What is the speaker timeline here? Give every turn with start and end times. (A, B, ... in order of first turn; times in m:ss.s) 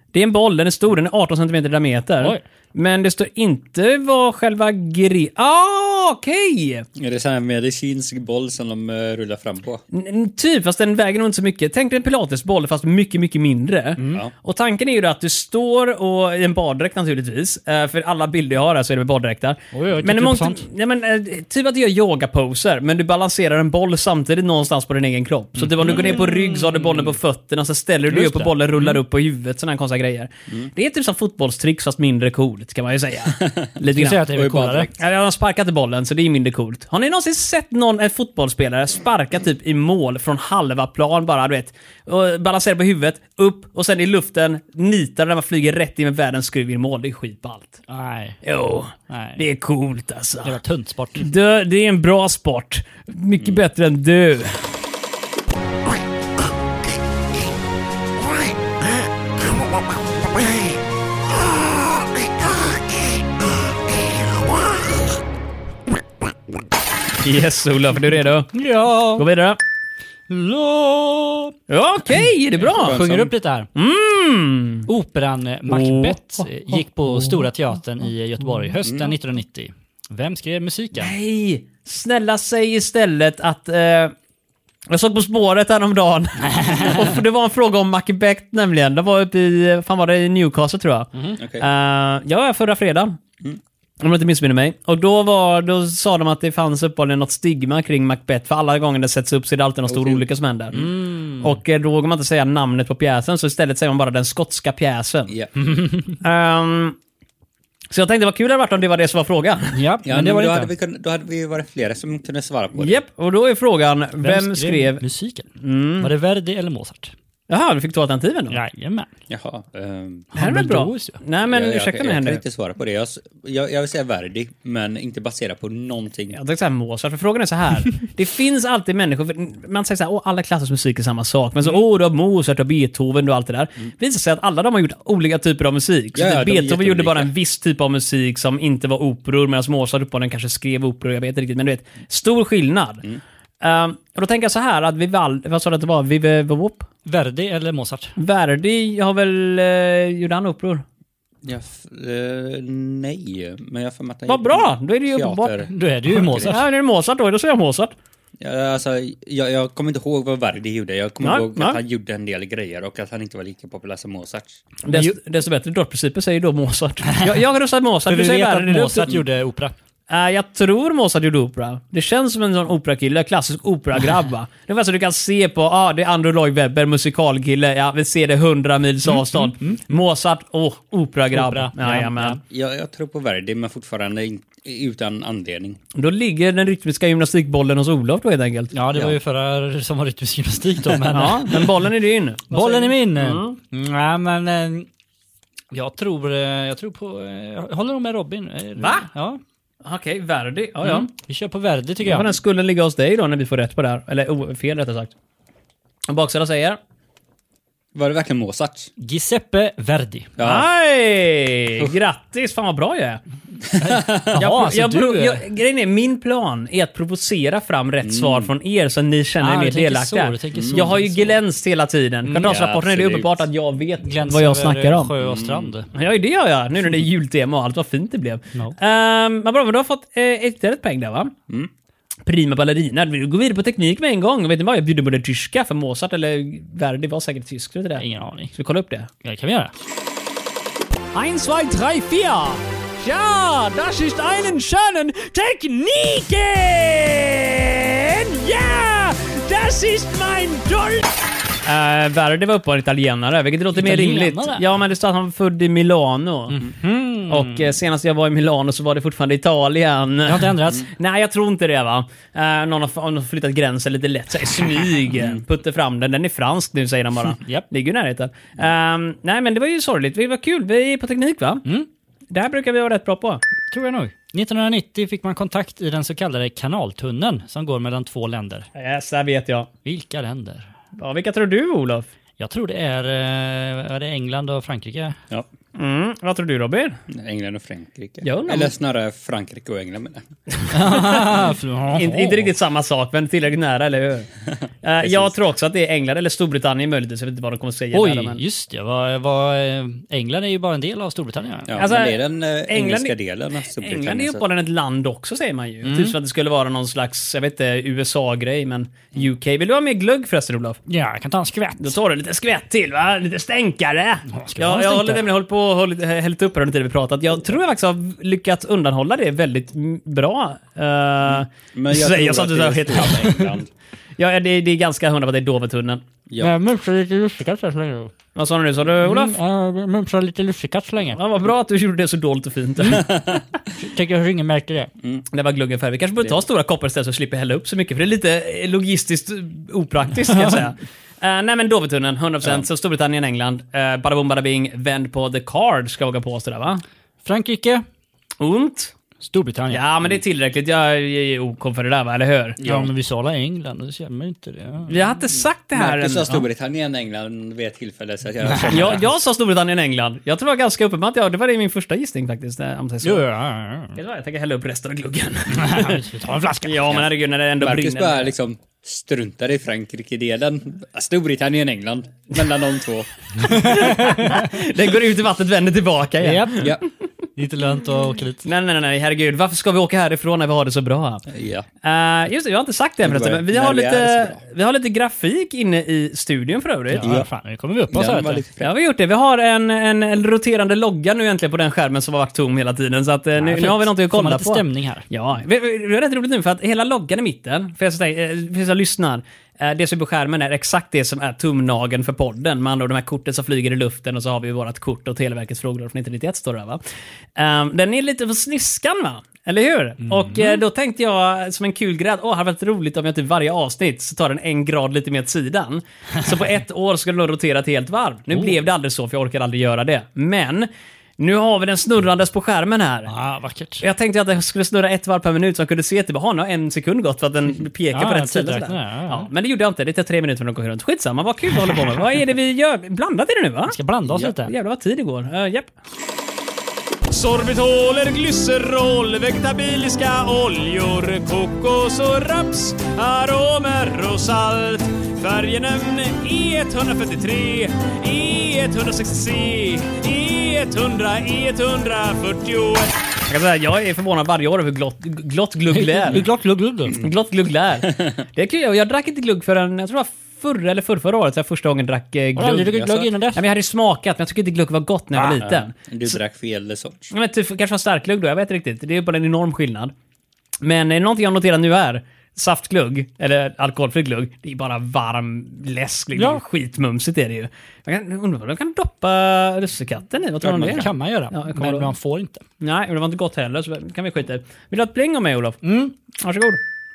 0:00.1-0:06.8 A
0:07.0-0:09.8 B
0:09.9-0:34.2 A
0:14.0-0:14.2 C
0:19.7-0:20.6 C
0:25.8-0:27.0 C
0:25.8-0:26.2 B
0:28.1-0:29.0 C
0:33.3-0:33.7 B
0:33.9-0:34.9 C
0:34.3-0:35.0 B
0:35.0-0:47.8 A
0:47.9-0:48.4 C
0:48.4-0:50.5 A
0:49.1-0:49.4 C
0:50.4-0:51.3 C
0:51.2-0:54.7 A
1:07.2-1:08.5 A
1:08.5-1:09.3 C
1:09.2-1:09.6 A
1:10.3-1:11.5 C
1:11.7-1:13.0 A
1:12.7-1:13.7 C
1:12.7-1:13.3 B
1:13.7-1:14.9 A
1:14.9-1:21.1 C
1:15.7-1:16.5 A
1:21.0-1:24.1 A
1:24.9-1:33.2 A
1:26.5-1:27.1 C
1:31.4-1:31.6 B
1:34.0-1:40.9 A
1:39.9-1:40.8 B
1:40.8-1:41.5 C
1:41.4-1:45.3 A
1:45.3-1:45.5 B
1:45.6-1:46.2 C
1:46.2-1:47.0 A
1:47.9-1:49.8 A
1:49.7-1:50.7 C
1:50.0-1:53.0 B
1:52.8-1:55.0 A
1:54.2-1:57.1 C
1:55.6-1:56.1 A
1:57.5-1:58.6 A
1:58.5-1:59.1 C
1:59.3-2:00.3 B
2:00.3-2:01.2 C
2:00.4-2:02.4 A
2:01.4-2:06.4 B
2:06.3-2:23.0 A
2:16.1-2:17.3 B
2:23.6-2:26.9 A
2:27.0-2:28.1 C
2:28.2-2:30.8 A
2:31.4-2:36.6 B
2:34.3-2:35.6 A
2:35.7-2:36.6 C
2:36.4-2:37.9 A
2:38.4-2:44.6 B
2:41.2-2:41.8 A
2:44.8-2:49.1 A
2:47.1-2:47.4 C
2:48.0-2:49.7 C
2:50.1-3:02.4 A
2:59.4-2:59.8 C
3:01.3-3:02.4 C
3:02.5-3:05.8 B
3:05.9-3:08.7 A
3:08.7-3:11.7 C
3:11.1-3:13.6 A
3:12.5-3:14.9 C
3:15.7-3:19.4 C
3:18.8-3:19.0 A
3:19.8-3:21.1 A
3:20.8-3:22.3 C
3:22.0-3:25.1 A
3:26.1-3:26.8 A
3:27.9-3:28.9 B
3:29.0-3:30.3 C
3:30.4-3:30.7 B
3:30.4-3:33.2 A
3:33.6-3:34.4 B
3:33.8-3:35.4 C
3:34.3-3:45.1 A
3:38.0-3:38.5 B
3:39.4-3:41.4 C
3:40.5-3:40.9 B
3:42.2-3:42.5 C
3:42.4-3:43.4 B
3:44.0-3:45.9 C
3:45.2-3:45.7 B
3:45.9-3:51.3 A
3:52.2-3:59.1 A
3:58.0-3:58.5 C
3:59.2-3:59.7 C
4:01.1-4:11.1 A
4:11.6-4:16.7 A
4:13.7-4:14.6 C
4:16.5-4:17.7 C
4:17.3-4:31.6 A
4:20.2-4:20.9 C
4:27.4-4:27.7 C
4:32.3-4:33.4 A
4:33.7-4:38.7 C
4:38.7-4:39.7 A
4:39.8-4:40.7 C
4:41.0-4:42.1 A
4:42.4-4:45.2 C
4:45.7-4:47.0 A
4:47.1-4:50.2 B
4:48.2-4:48.7 A
4:50.6-4:51.3 A
4:50.7-4:52.5 C
4:51.9-4:54.3 A
4:54.8-4:58.4 A
4:55.0-4:55.3 B
4:57.9-5:01.8 C
5:01.7-5:04.4 B
5:01.8-5:03.1 A
5:03.7-5:10.8 A
5:05.8-5:06.1 C
5:10.9-5:12.0 C
5:11.8-5:23.3 A
5:14.3-5:15.2 C
5:21.7-5:23.7 B
5:23.2-5:23.5 C
5:24.2-5:26.0 A
5:26.4-5:28.1 C
5:28.3-5:29.3 A
5:29.0-5:31.2 C
5:31.1-5:33.0 A
5:32.9-5:33.4 B
5:33.8-5:34.9 C
5:35.3-5:46.8 A
5:40.2-5:40.7 C
5:47.2-5:47.8 C
5:48.4-5:48.9 A
5:49.2-5:49.8 C
5:49.7-5:52.6 A
5:52.6-5:52.9 B
5:52.6-5:54.9 C
5:54.9-5:56.4 A
5:55.7-5:59.1 B
5:58.5-5:58.9 C
5:58.7-6:03.2 A
6:03.0-6:04.0 C
6:03.9-6:06.0 A
6:05.5-6:07.0 C
6:06.6-6:08.3 A
6:07.6-6:13.1 B
6:13.4-6:16.8 A
6:13.7-6:14.2 C
6:16.2-6:16.7 C
6:16.6-6:16.8 B
6:17.4-6:18.4 C
6:18.4-6:21.2 A
6:21.3-6:21.7 B
6:21.8-6:27.1 A
6:23.0-6:24.4 B
6:26.9-6:28.4 C
6:27.0-6:27.3 B
6:27.9-6:28.7 B
6:28.6-6:46.8 A
6:33.4-6:35.0 C
6:47.4-7:03.1 A
6:50.2-6:50.6 C
7:03.1-7:03.8 C
7:03.8-7:15.7 A
7:07.9-7:09.3 C
7:13.7-7:14.5 C
7:17.1-7:36.2 A
7:35.7-7:37.0 C
7:36.9-7:42.8 A
7:42.4-7:43.4 C
7:42.7-7:43.1 B
7:43.3-7:46.1 A
7:45.4-7:47.1 B
7:47.1-7:49.9 A
7:50.6-8:01.9 A
7:56.1-7:56.4 C
8:00.4-8:00.9 B
8:00.6-8:02.4 C
8:02.6-8:05.6 A
8:05.6-8:05.9 C
8:06.2-8:06.6 A